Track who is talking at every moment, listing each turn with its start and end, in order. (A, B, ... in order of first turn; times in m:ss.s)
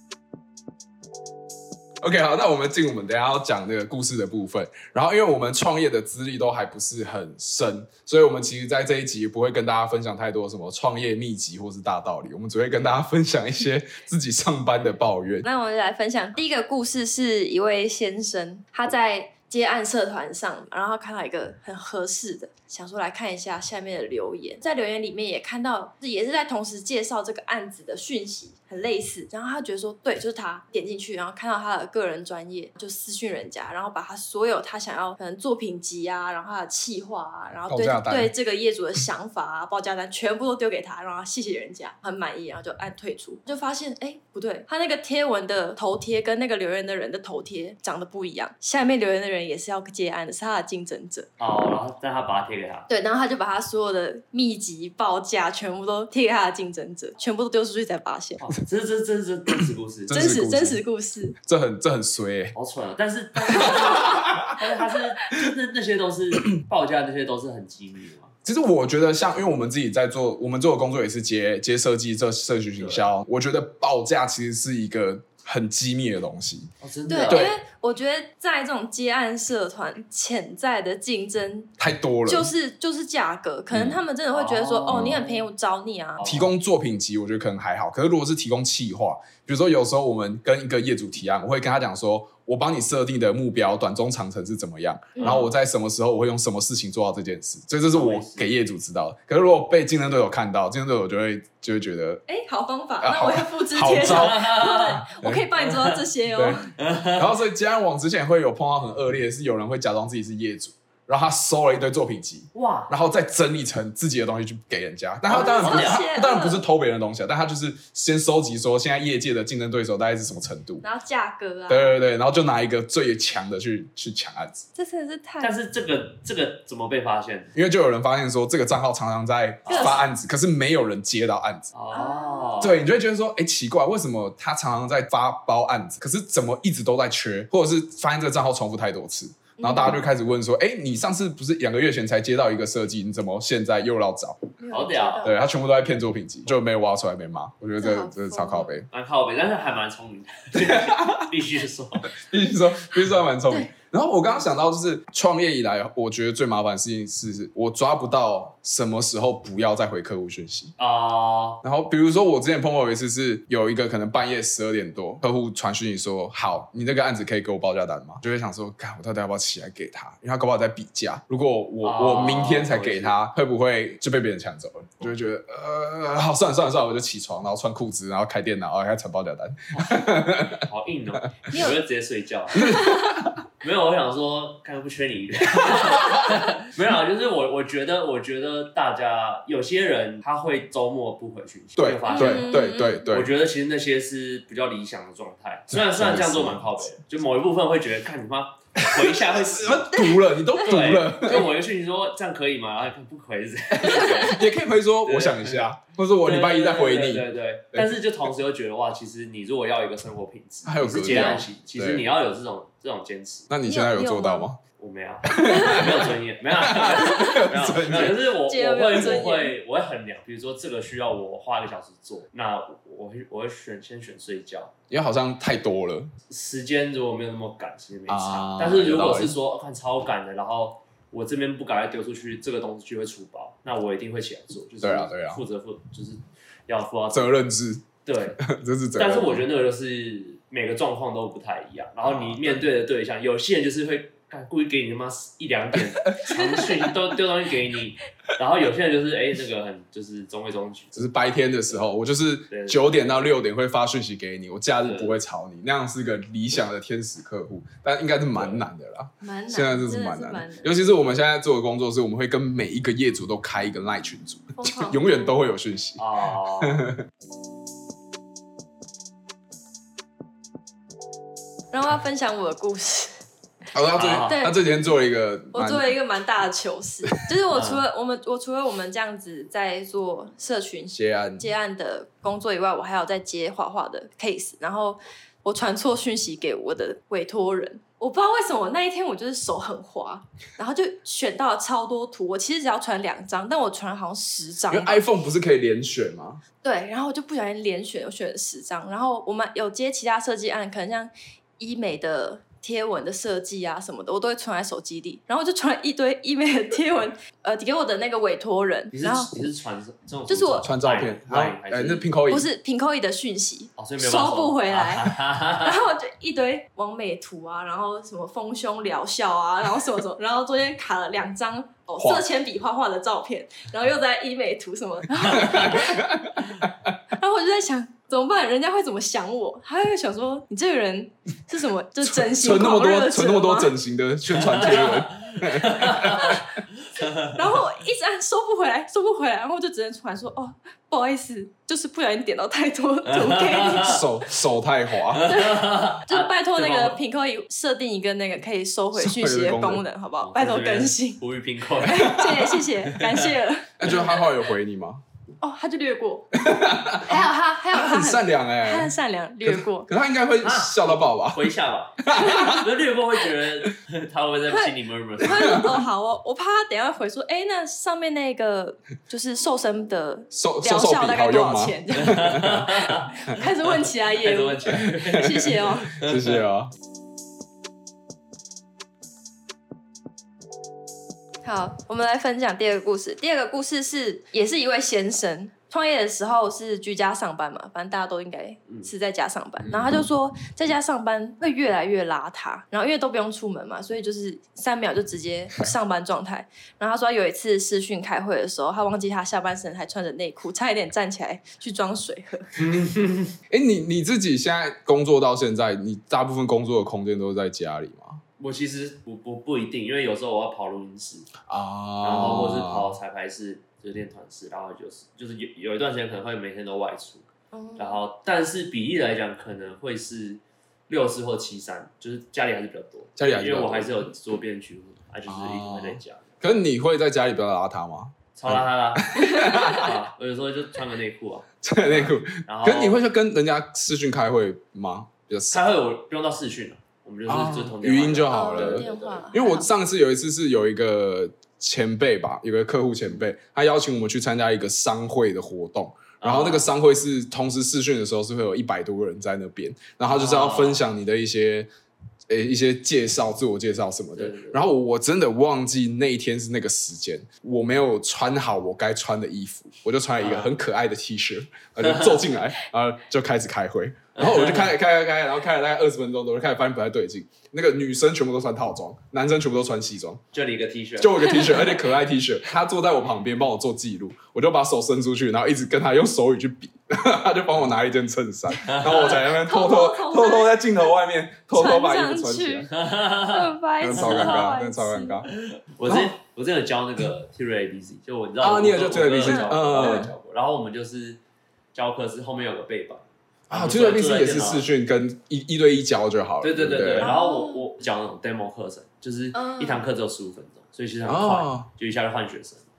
0:02.0-0:15.5 A
0:15.4-0:51.3 B
0:37.7-0:38.3 A
0:51.4-0:52.9 C
0:52.9-0:58.5 B
0:58.4-1:00.2 C
1:00.1-1:00.8 A
1:00.1-1:01.4 B
1:01.4-1:02.6 A
1:02.6-1:08.3 C
1:03.4-1:04.6 A
1:08.4-1:16.7 A
1:12.8-1:13.1 C
1:16.8-1:17.5 C
1:17.1-1:21.7 B
1:17.3-1:17.5 A
1:21.8-1:22.5 A
1:22.3-1:26.3 B
1:23.7-1:24.0 A
1:24.3-1:25.4 C
1:24.9-1:25.2 A
1:26.2-1:26.5 C
1:26.2-1:42.2 A
1:35.2-1:35.4 B
1:35.2-1:35.5 C
1:37.9-1:38.5 C
1:42.3-1:46.7 B
1:43.0-1:45.5 A
1:44.0-1:45.0 C
1:45.6-1:46.0 C
1:46.3-2:00.8 A
1:46.8-1:47.3 C
1:52.5-1:52.9 C
1:55.3-1:56.0 C
1:55.3-1:56.6 B
2:00.8-2:02.0 B
2:01.7-2:04.6 A
2:04.8-2:05.5 B
2:05.4-2:07.5 C
2:07.6-2:11.7 A
2:09.6-2:10.0 C
2:09.7-2:10.1 B
2:11.7-2:12.8 C
2:11.9-2:12.6 B
2:12.6-2:24.4 A
2:19.6-2:20.0 B
2:24.6-2:25.4 B
2:24.7-2:25.4 C
2:25.2-2:28.9 A
2:27.8-2:28.7 B
2:28.9-2:32.1 C
2:30.6-2:31.3 A
2:32.1-2:40.8 A
2:40.8-2:41.6 C
2:41.6-3:00.6 A
2:51.8-2:53.2 C
2:59.7-3:02.8 C
3:01.5-3:01.8 B
3:02.5-3:03.2 B
3:02.6-3:03.4 A
3:03.6-3:19.9 C
3:05.6-3:06.2 A
3:11.8-3:13.3 A
3:12.1-3:13.1 B
3:15.7-3:16.9 A
3:18.8-3:21.5 A
3:20.6-3:24.5 C
3:23.8-3:28.0 A
3:23.8-3:24.3 B
3:25.0-3:25.6 C
3:26.2-3:33.5 C
3:30.6-3:32.1 A
3:31.0-3:31.4 B
3:33.5-3:34.6 A
3:33.7-3:34.5 B
3:34.8-3:44.7 C
3:35.3-3:38.2 A
3:35.5-3:35.9 B
3:36.9-3:37.5 B
3:38.5-3:39.5 B
3:44.9-3:46.1 A
3:46.3-3:57.4 C
3:48.1-3:49.4 A
3:54.8-3:55.4 A
3:57.1-3:59.5 A
3:58.0-3:58.4 C
3:59.0-4:11.1 C
4:02.0-4:02.7 A
4:06.0-4:06.7 A
4:11.0-4:26.0 A
4:12.5-4:13.3 C
4:14.8-4:15.2 C
4:18.4-4:18.7 C
4:19.2-4:20.7 B
4:24.6-4:25.0 B
4:26.0-4:26.8 C
4:26.6-4:27.0 A
4:31.7-4:33.2 B
4:33.7-4:35.9 A
4:34.0-4:34.4 C
4:34.2-4:34.6 B
4:35.5-4:55.0 B
4:37.5-4:37.8 C
4:40.9-4:41.5 A
4:54.7-4:56.4 A
4:56.6-5:09.3 B
5:08.9-5:12.1 C
5:10.3-5:10.7 B
5:10.6-5:12.5 A
5:12.3-5:26.1 B
5:13.8-5:15.8 C
5:22.0-5:22.2 A
5:25.3-5:26.9 A
5:27.1-5:33.7 B
5:32.0-5:36.4 A
5:34.4-5:36.4 C
5:36.0-5:36.5 B
5:37.0-5:37.3 C
5:37.2-5:44.0 B
5:43.1-5:44.0 C
5:43.8-5:45.4 A
5:45.2-5:47.0 C
5:45.2-5:51.2 B
5:49.0-5:49.8 A
5:50.2-5:52.3 C
5:51.8-5:54.2 B
5:52.0-5:52.6 A
5:52.8-5:53.4 C
5:53.8-5:55.0 A
5:55.4-5:56.3 B
5:56.3-5:58.9 A
5:57.0-5:59.9 B
5:59.4-6:02.7 A
6:00.4-6:05.6 C
6:02.1-6:02.6 B
6:05.2-6:12.4 B
6:05.3-6:05.7 A
6:10.3-6:12.8 A
6:12.0-6:13.2 C
6:13.2-6:16.0 B
6:14.2-6:16.4 C
6:14.8-6:16.7 A
6:21.4-6:42.5 B
6:42.6-6:43.4 C
6:43.5-6:48.2 A
6:48.4-6:51.3 C
6:51.5-6:53.0 A
6:52.0-6:57.3 C
6:57.5-6:58.0 B
6:57.8-7:06.3 C
7:03.2-7:04.1 A
7:05.3-7:10.0 A
7:08.4-7:13.0 C
7:09.2-7:09.9 B
7:11.6-7:15.7 A
7:15.5-7:19.3 C
7:17.3-7:31.7 A
7:18.3-7:19.7 B
7:26.2-7:26.7 C
7:30.1-7:30.8 C
7:32.3-7:50.2 A
7:34.2-7:34.6 C
7:40.2-7:40.5 C
7:41.8-7:42.1 C
7:44.2-7:44.7 C
7:50.3-7:51.7 C
7:51.0-8:02.7 A
7:58.6-7:59.2 C
7:58.7-8:00.7 B
8:01.5-8:02.7 B
8:02.7-8:04.5 C
8:03.3-8:05.2 B
8:03.8-8:05.3 A
8:05.3-8:11.2 C
8:05.8-8:06.2 A
8:08.4-8:10.1 A
8:09.2-8:10.0 B
8:11.7-8:14.7 C
8:13.5-8:17.1 A
8:16.4-8:22.6 C
8:17.0-8:17.6 B
8:19.3-8:19.8 B
8:21.1-8:21.7 A